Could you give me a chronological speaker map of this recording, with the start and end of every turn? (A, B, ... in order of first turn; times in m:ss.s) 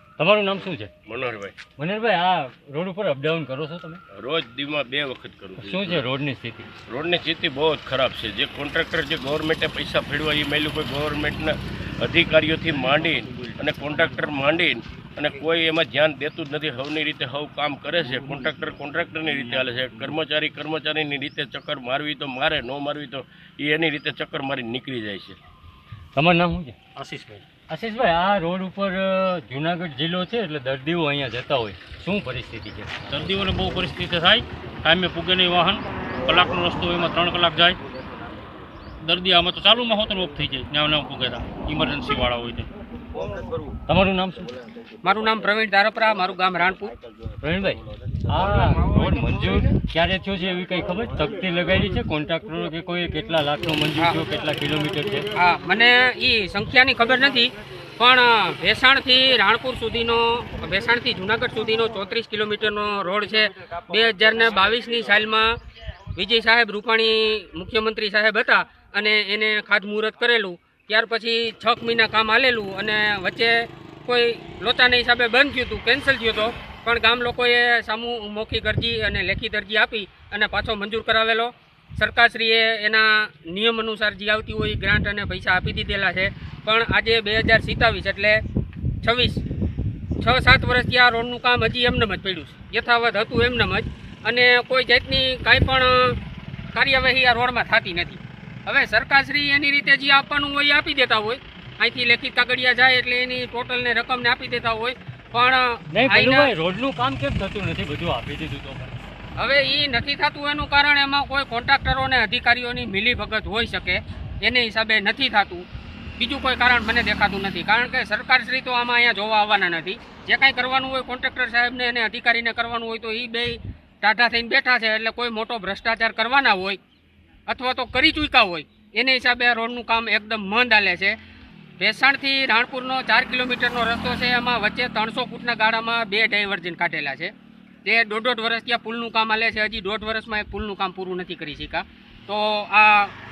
0:00.2-0:00.9 A
0:00.5-0:01.6 B
0:01.7-0:04.0 A
0:04.1-0:06.0 B
0:05.6-0:06.7 A
0:06.9-0:25.4 B
0:26.2-0:26.8 A
0:26.9-0:27.4 C
0:27.7-0:33.1 A
0:33.1-0:37.8 C
0:39.0-0:42.7 C
0:43.9-0:44.5 A
0:45.0-0:46.9 D
0:47.4-0:55.3 A
0:55.3-1:05.6 D
1:06.2-1:28.4 D
1:29.0-1:29.4 D
1:30.2-1:36.2 D
1:36.7-1:46.5 D
1:45.9-1:48.9 A
1:49.4-1:55.6 D
1:56.2-2:06.8 D
2:07.5-2:11.2 D
2:11.8-2:17.3 D
2:17.8-2:23.1 D